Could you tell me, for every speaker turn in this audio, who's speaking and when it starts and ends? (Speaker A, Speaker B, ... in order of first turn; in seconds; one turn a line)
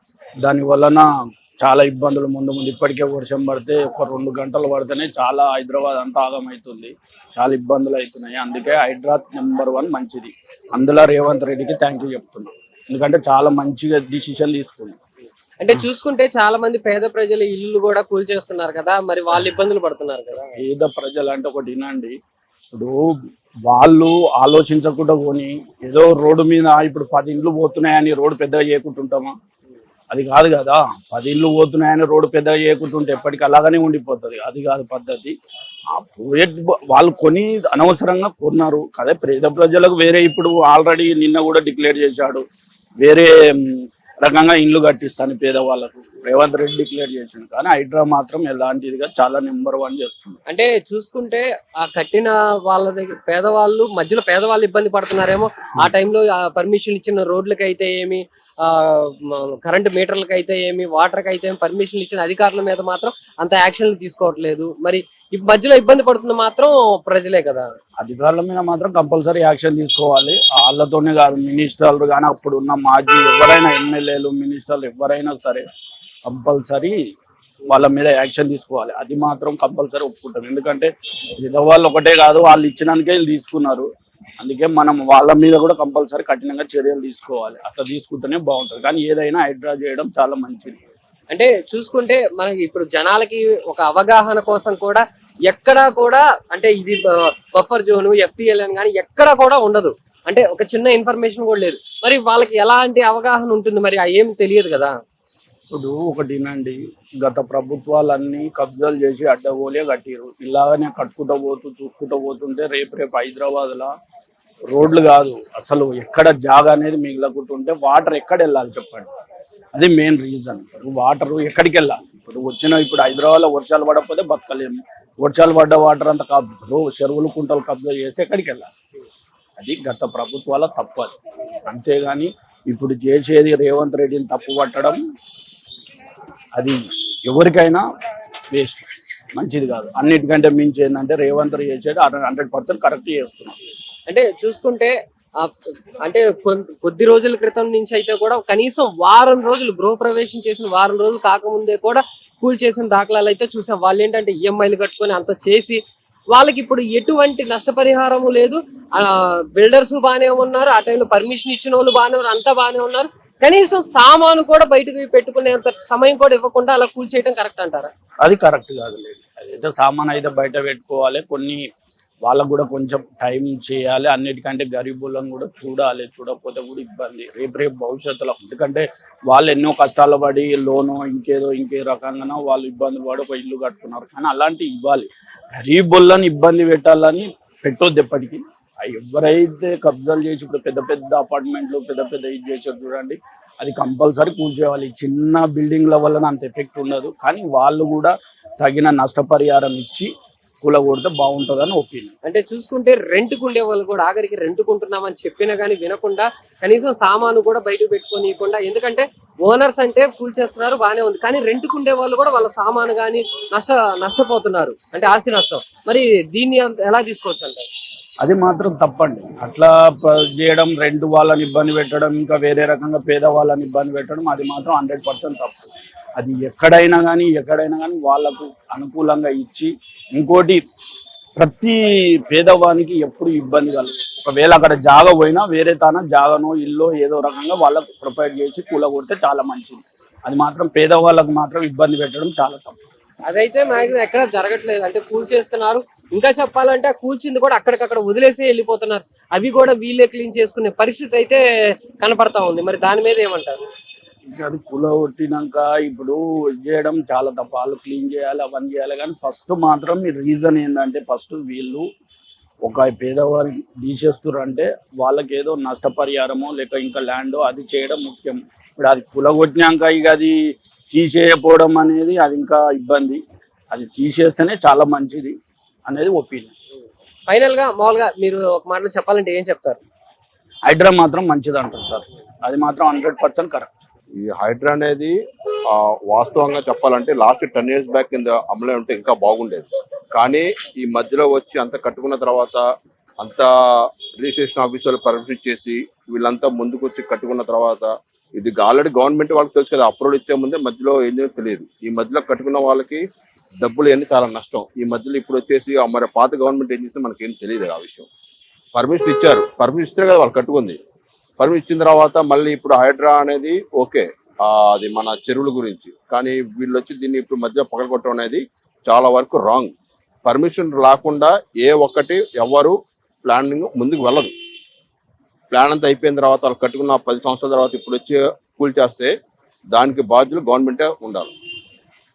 Speaker A: 0.4-1.1
Speaker A: 1.6-15.0
Speaker B: 15.6-20.6
Speaker A: 20.6-22.1
Speaker A: 22.7-23.1
Speaker A: 23.6-29.3
Speaker A: 30.1-35.3
Speaker A: 35.9-42.4
Speaker A: 43.0-50.4
Speaker B: 50.5-67.7
Speaker A: 68.0-75.6
Speaker A: 76.2-77.0
Speaker A: 77.7-83.9
Speaker A: 84.4-90.8
Speaker B: 91.3-104.9
Speaker A: 105.7-113.9
Speaker A: 114.7-119.1
Speaker A: 119.7-128.7
Speaker A: 129.6-131.2
Speaker A: 131.7-135.0
Speaker A: 136.5-137.8
Speaker A: 138.5-143.6
Speaker B: 144.1-155.8
Speaker B: 156.3-167.9
Speaker A: 168.2-171.6
Speaker A: 172.2-200.1
Speaker A: 200.6-202.1
Speaker B: 202.2-217.7
Speaker A: 218.2-230.6
Speaker A: 231.3-242.8
Speaker B: 243.3-251.4
Speaker B: 252.0-253.6
Speaker A: 254.3-261.9
Speaker A: 262.6-270.4
Speaker A: 270.9-275.4
Speaker A: 275.9-276.5
Speaker B: 277.3-279.8
Speaker A: 280.7-283.8
Speaker C: 284.2-285.1
Speaker C: 285.7-292.6
Speaker C: 293.2-293.5
Speaker C: 294.1-303.0
Speaker C: 303.6-308.1
Speaker C: 308.7-310.8
Speaker C: 311.4-319.7
Speaker C: 320.2-324.3
Speaker C: 325.5-329.1
Speaker C: 329.7-331.3